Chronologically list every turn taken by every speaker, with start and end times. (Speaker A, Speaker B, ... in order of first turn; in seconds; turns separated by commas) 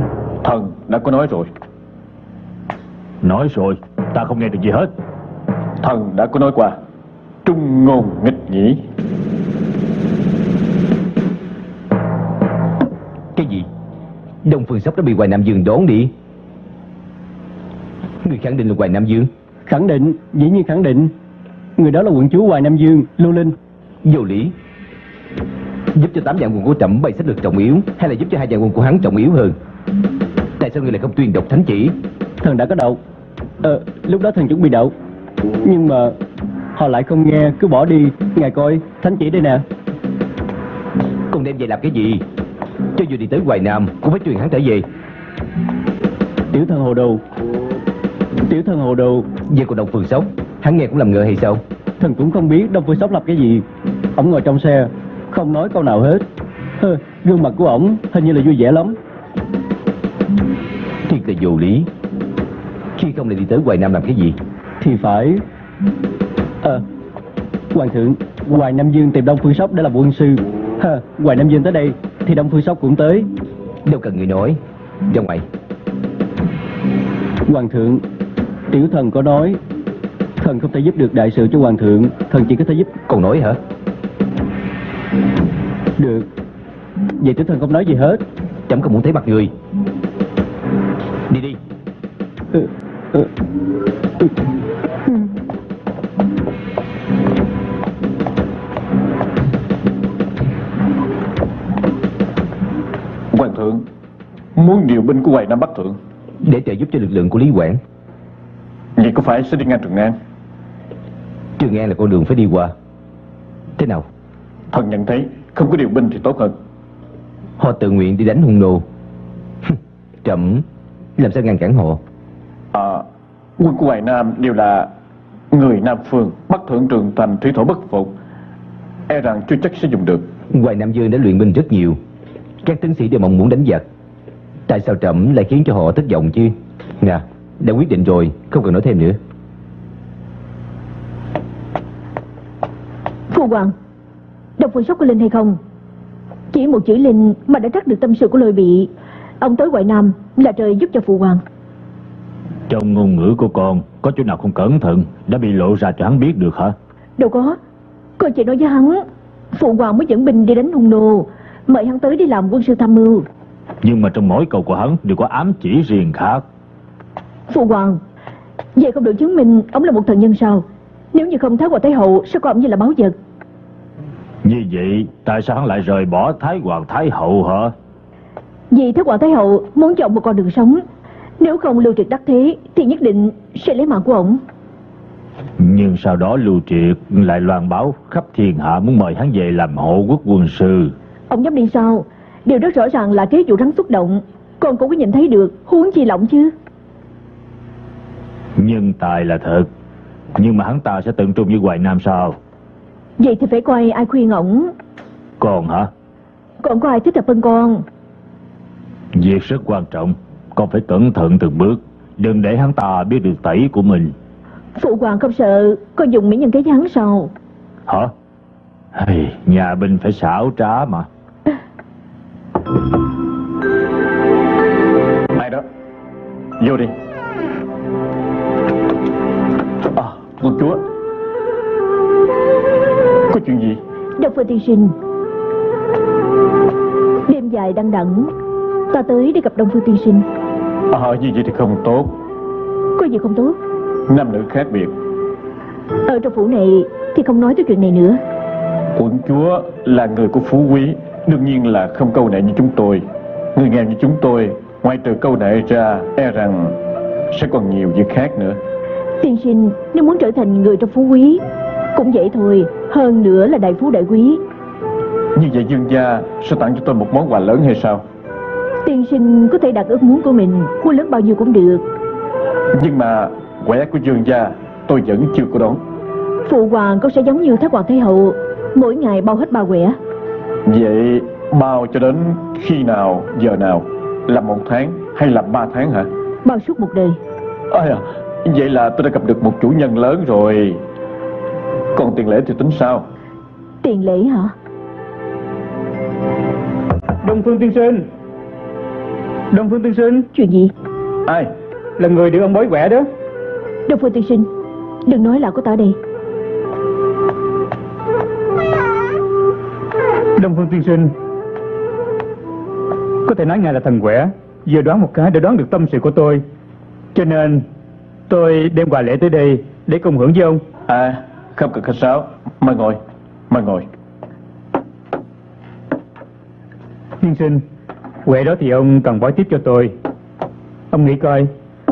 Speaker A: 0.4-1.5, Speaker B: 3.2-4.9, Speaker A: 5.8-6.8, Speaker A: 7.4-8.8, Speaker C: 13.3-13.7, Speaker C: 14.4-16.1, Speaker C: 18.2-19.3, Speaker D: 19.7-21.1, Speaker D: 21.8-23.6, Speaker C: 24.0-24.5, Speaker C: 25.9-29.6, Speaker C: 30.6-32.0, Speaker D: 32.4-33.0, Speaker D: 33.6-34.9, Speaker D: 35.6-36.2, Speaker D: 36.8-39.6, Speaker C: 41.3-42.2, Speaker C: 42.9-44.9, Speaker D: 46.5-47.2, Speaker D: 48.5-49.3, Speaker C: 49.5-51.6, Speaker D: 52.0-56.2, Speaker D: 56.8-59.0, Speaker C: 61.0-61.9, Speaker C: 63.0-64.4, Speaker D: 64.8-65.4, Speaker D: 67.7-73.3, Speaker C: 73.8-75.4, Speaker D: 77.5-78.0, Speaker D: 78.7-79.6, Speaker D: 80.4-82.9, Speaker C: 83.1-83.6, Speaker D: 86.0-86.3, Speaker D: 87.2-88.2, Speaker C: 88.7-89.5, Speaker C: 91.3-91.6, Speaker D: 92.5-93.3, Speaker A: 103.3-103.8, Speaker A: 104.5-106.0, Speaker C: 106.4-107.8, Speaker A: 109.0-110.1, Speaker C: 111.6-112.7, Speaker C: 113.8-114.0, Speaker A: 114.7-116.5, Speaker C: 117.6-118.8, Speaker C: 119.7-120.6, Speaker C: 121.2-122.0, Speaker A: 122.7-123.0, Speaker A: 123.6-124.9, Speaker A: 125.5-128.1, Speaker A: 129.1-130.3, Speaker C: 130.5-132.0, Speaker C: 132.6-133.8, Speaker C: 134.7-139.2, Speaker E: 143.3-143.7, Speaker E: 144.6-145.6, Speaker E: 146.5-151.4, Speaker B: 152.7-156.7, Speaker E: 157.2-157.6, Speaker E: 158.2-163.2, Speaker B: 163.8-166.4, Speaker E: 167.5-168.0, Speaker E: 168.8-173.1, Speaker B: 174.4-177.7, Speaker E: 178.7-180.8, Speaker E: 181.4-184.4, Speaker B: 185.6-190.9, Speaker E: 191.3-196.5, Speaker B: 198.6-199.7, Speaker B: 200.3-202.4, Speaker E: 203.2-204.7, Speaker B: 205.4-205.9, Speaker E: 206.6-207.8, Speaker B: 209.1-214.1, Speaker E: 214.8-217.3, Speaker B: 217.9-218.1, Speaker B: 218.9-221.1, Speaker A: 225.3-225.7, Speaker A: 226.6-226.9, Speaker A: 229.8-230.8, Speaker A: 233.3-233.8, Speaker E: 234.2-234.9, Speaker E: 237.3-238.3, Speaker E: 238.9-240.2, Speaker A: 240.9-242.2, Speaker E: 242.9-243.6, Speaker A: 244.1-244.9, Speaker E: 246.1-248.2, Speaker A: 248.9-256.8, Speaker A: 257.3-258.6, Speaker E: 259.2-261.4, Speaker E: 261.9-264.4, Speaker A: 265.3-268.0, Speaker E: 268.8-271.8, Speaker A: 272.7-275.8, Speaker E: 276.4-280.0, Speaker A: 280.6-286.1, Speaker E: 286.4-287.2, Speaker A: 287.7-290.8, Speaker A: 291.9-293.1, Speaker E: 293.8-294.5, Speaker F: 297.2-298.1, Speaker F: 299.5-300.3, Speaker E: 300.3-300.7, Speaker A: 301.2-301.5, Speaker F: 302.0-303.1, Speaker E: 303.9-304.5, Speaker E: 305.1-306.0, Speaker F: 310.4-311.1, Speaker F: 313.2-316.4, Speaker F: 317.1-317.6, Speaker F: 318.3-320.6, Speaker A: 320.9-323.9, Speaker F: 327.2-327.6, Speaker F: 328.2-329.9, Speaker F: 330.9-331.5